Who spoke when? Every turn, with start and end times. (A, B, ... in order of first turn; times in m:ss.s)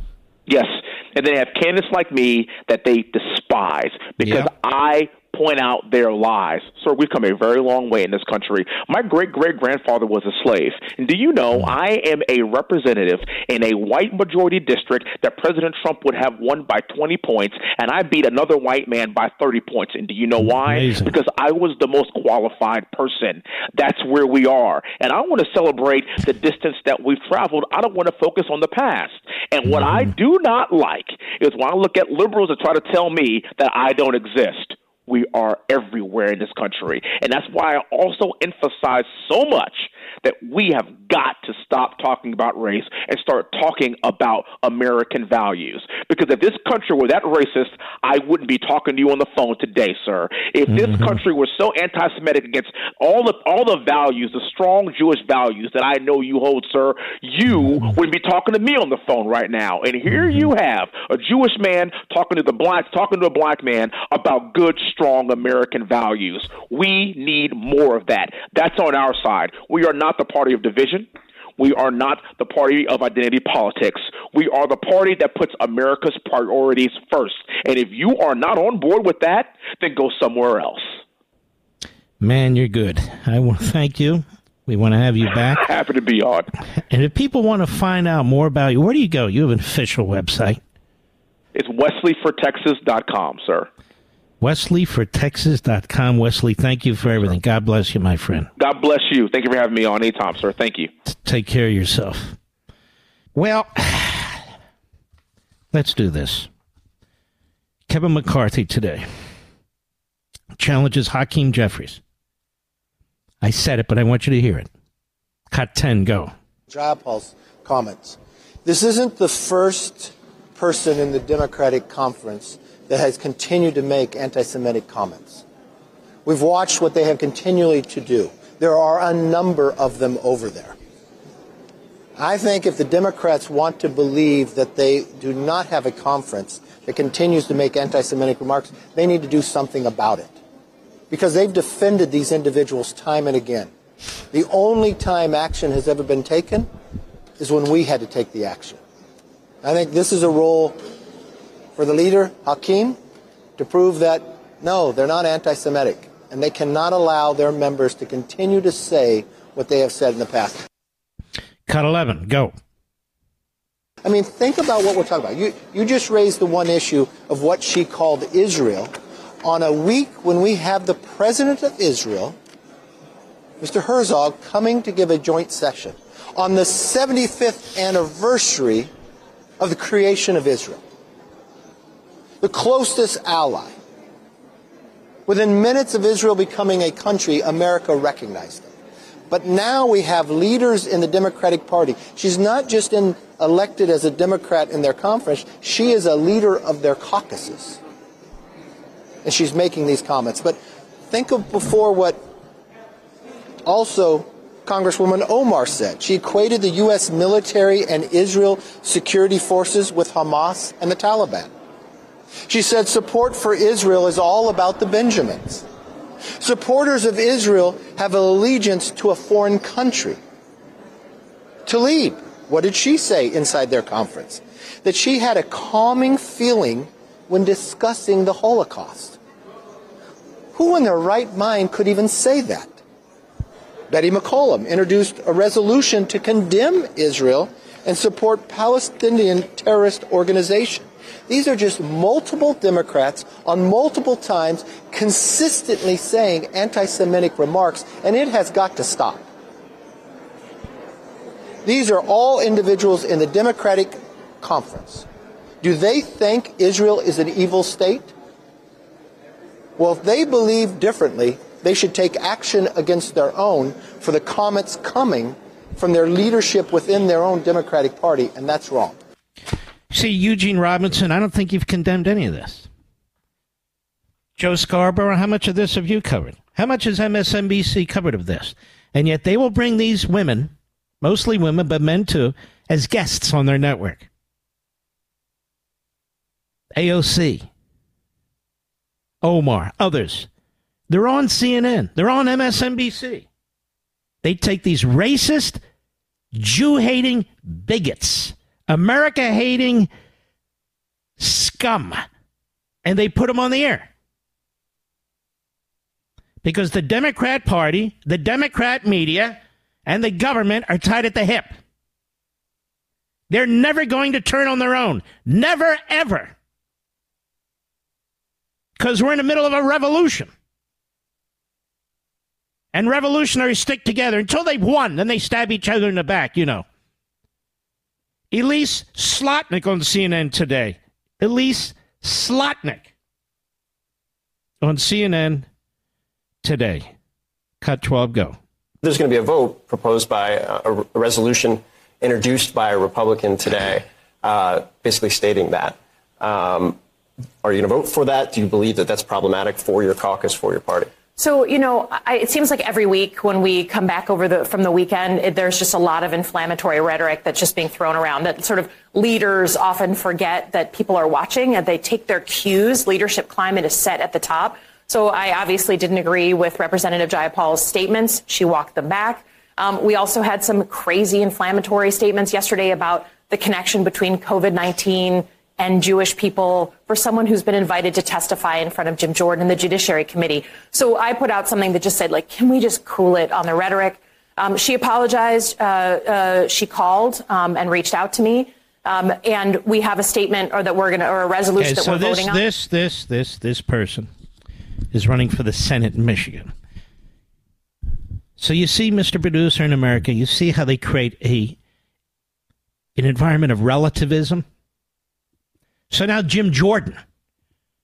0:00.5-1:21.0 A
0:04.2-0:04.5 B
0:20.4-0:21.2 B
0:29.7-0:30.1 B
0:50.7-0:51.2 B
1:00.1-1:00.4 B
1:22.2-1:25.6 B
1:25.5-1:26.5 A
1:26.9-1:30.6 B
1:31.5-1:33.7 A
1:34.4-1:38.5 B
1:38.6-1:40.9 A
1:41.1-1:42.4 B
1:43.3-1:44.4 B
1:45.7-1:46.5 B
1:47.9-1:49.0 B
1:50.6-1:52.0 B
1:53.4-1:54.7 B
1:55.5-1:56.3 B
1:56.7-2:05.4 C
2:06.2-2:10.7 C
2:12.2-2:20.4 C
2:21.1-2:23.7 C
2:24.3-2:26.7 C
2:27.4-2:28.8 C
2:29.6-2:30.8 C
2:31.8-2:33.0 C
2:33.6-2:40.6 C
2:41.7-2:42.5 B
2:44.0-2:52.4 C
2:53.6-2:58.9 C
2:59.6-3:00.8 C
3:02.4-3:03.7 C
3:05.3-3:08.7 C
3:09.3-3:17.8 C
3:19.2-3:20.6 C
3:21.1-3:22.2 C
3:23.6-3:31.5 C
3:32.5-3:35.6 C
3:36.4-3:40.2 C
3:41.6-3:49.2 C
3:50.5-3:52.8 C
3:53.9-4:09.2 C
4:11.6-4:15.0 C
4:15.6-4:18.1 C
4:19.8-4:29.0 C
4:29.9-4:32.7 B
4:34.4-4:44.1 B
4:46.8-4:47.4 B
4:49.2-4:50.3 B
4:50.9-4:53.2 B
4:54.2-4:55.6 B
4:56.3-4:59.9 B
5:01.2-5:02.0 B
5:02.8-5:03.9 B
5:06.4-5:11.5 B
5:13.3-5:16.3 B
5:18.8-5:20.3 B
5:22.7-5:26.6 B
5:28.3-5:32.9 B
5:34.6-5:35.5 B
5:36.4-5:36.9 B
5:37.6-5:38.4 B
5:38.8-5:46.8 D
5:47.4-5:50.9 D
5:51.2-6:32.4 E
6:31.6-6:34.1 B
6:34.9-6:36.5 B
6:38.4-6:41.6 B
6:43.0-6:44.4 B
6:45.9-6:47.0 B